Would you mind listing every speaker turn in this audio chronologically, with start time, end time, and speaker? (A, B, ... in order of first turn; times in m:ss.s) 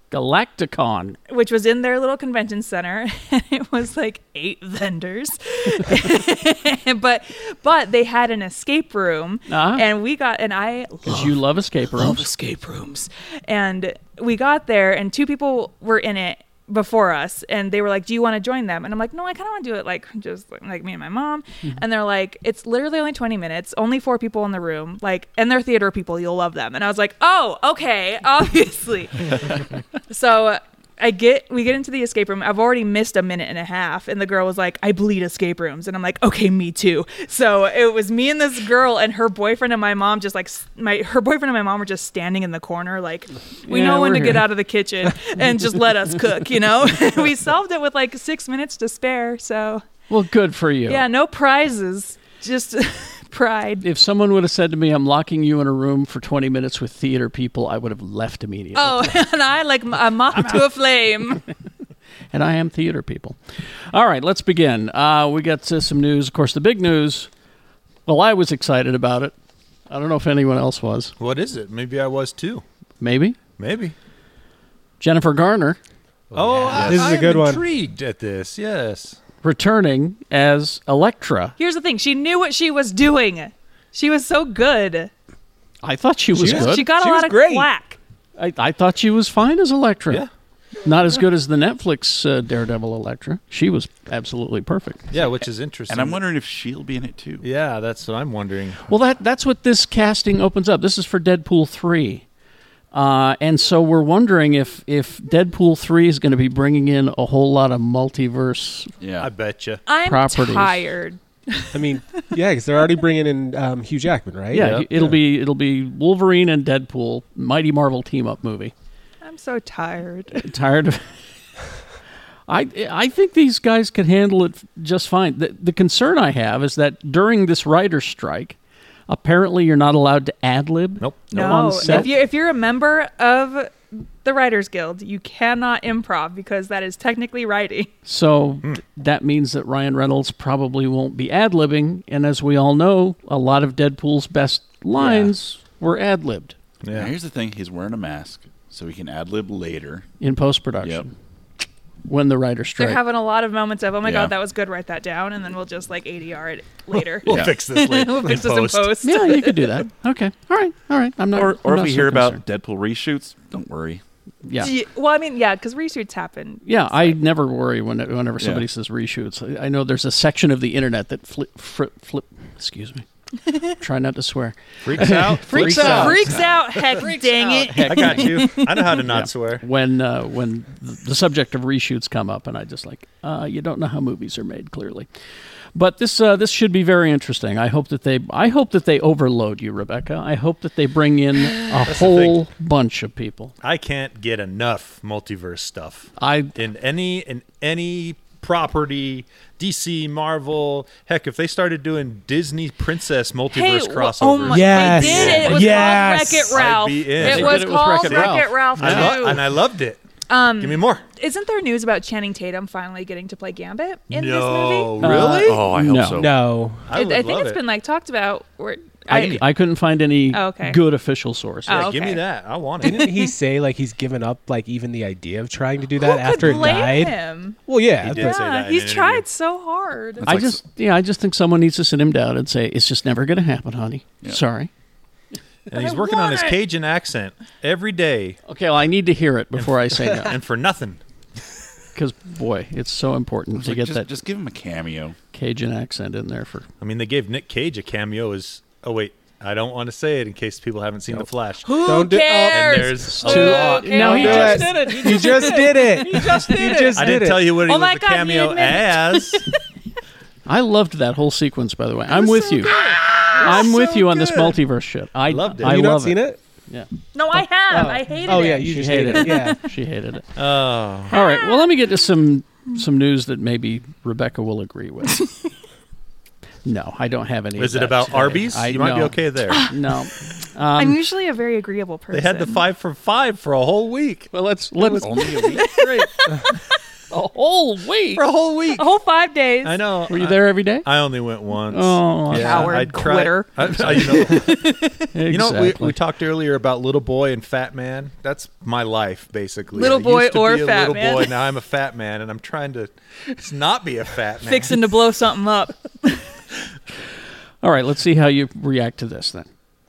0:00.1-0:01.2 A
0:01.3-0:11.4 B
0:09.5-0:09.8 A
0:11.0-0:12.3 A
0:11.9-0:49.8 B
0:43.6-0:44.4 A
0:50.1-0:51.0 A
0:50.9-0:53.8 B
0:53.8-0:59.0 A
0:58.7-1:01.4 B
1:02.3-1:03.4 A
1:03.9-1:07.3 A
1:08.0-1:09.3 A
1:09.9-1:11.1 A
1:11.2-1:12.6 C
1:13.0-1:13.4 A
1:13.6-1:14.0 C
1:15.0-1:15.8 A
1:16.3-1:19.2 C
1:16.7-1:17.0 D
1:16.7-1:17.6 E
1:19.4-1:21.6 A
1:21.6-1:25.1 B
1:25.8-1:26.9 A
1:26.3-1:27.7 E
1:26.4-1:28.0 B
1:28.4-1:30.2 A
1:30.8-1:35.1 A
1:35.1-1:36.2 C
1:35.9-1:37.4 D
1:37.4-1:38.8 C
1:38.9-1:42.2 A
1:42.9-1:48.9 A
1:49.0-1:49.3 D
1:49.2-1:49.8 C
1:49.9-1:51.8 B
1:50.0-1:50.8 A
1:51.7-1:54.8 E
1:54.5-1:58.7 A
1:54.5-1:55.2 C
1:59.2-2:00.5 B
2:00.4-2:01.1 A
2:02.5-2:08.6 A
2:09.1-2:12.1 A
2:11.0-2:12.1 C
2:11.3-2:17.9 B
2:18.0-2:26.5 A
2:26.8-2:27.1 C
2:26.9-2:30.1 D
2:30.2-2:31.1 A
2:32.0-2:33.0 A
2:32.8-2:39.7 B
2:34.0-2:34.3 D
2:37.2-2:39.0 C
2:37.3-2:37.6 D
2:39.0-2:42.4 A
2:41.3-2:44.0 D
2:44.4-2:44.7 A
2:44.6-2:46.8 B
2:46.6-2:53.0 A
2:48.4-2:48.7 D
2:53.7-3:05.1 A
2:54.8-2:57.0 C
2:55.5-2:59.0 B
2:57.8-2:59.6 C
3:05.7-3:13.5 A
3:11.8-3:12.4 C
3:13.6-3:30.0 C
3:16.2-3:16.5 A
3:23.5-3:29.4 B
3:24.5-3:26.6 E
3:27.2-3:29.2 A
3:30.3-3:35.0 B
3:30.6-3:31.0 C
3:34.1-3:35.6 C
3:35.0-3:36.2 A
3:35.0-3:36.5 D
3:36.2-3:36.8 E
3:36.8-3:37.6 C
3:36.9-3:39.4 B
3:39.1-3:41.9 A
3:40.3-3:40.8 B
3:41.6-3:42.2 B
3:41.7-3:43.1 C
3:42.8-3:43.3 B
3:42.8-3:47.2 E
3:46.0-3:50.3 B
3:47.7-3:48.4 E
3:48.0-3:49.2 C
3:50.2-3:50.6 D
3:50.2-3:54.7 A
3:55.7-3:58.4 C
3:55.7-3:56.6 B
3:58.5-4:00.4 A
3:59.6-4:01.0 C
4:01.9-4:04.1 A
4:03.6-4:05.2 D
4:05.3-4:06.7 A
4:06.8-4:11.9 C
4:11.6-4:19.6 B
4:11.8-4:17.5 E
4:12.5-4:14.0 C
4:13.1-4:16.9 A
4:17.0-4:19.5 C
4:20.5-4:30.3 A
4:22.1-4:23.8 B
4:23.5-4:24.5 C
4:25.3-4:25.9 C
4:25.6-4:26.4 E
4:27.1-4:29.6 B
4:27.7-4:29.6 E
4:30.4-4:31.1 C
4:31.1-4:35.2 A
4:31.1-4:31.7 B
4:36.6-4:41.0 A
4:37.6-4:39.7 C
4:39.5-4:39.9 B
4:40.8-4:42.6 B
4:42.1-4:44.3 C
4:44.3-4:46.2 A
4:45.0-4:45.7 D
4:45.3-4:46.6 B
4:47.1-4:48.2 A
4:48.1-4:48.8 C
4:48.7-4:49.8 B
4:49.6-4:54.6 C
4:50.1-4:50.9 A
4:51.7-4:52.8 A
4:52.3-4:55.0 B
4:53.8-4:54.1 A
4:55.1-4:56.0 A
4:55.3-5:04.8 C
4:59.7-5:01.3 B
5:04.4-5:06.2 B
5:07.6-5:09.5 A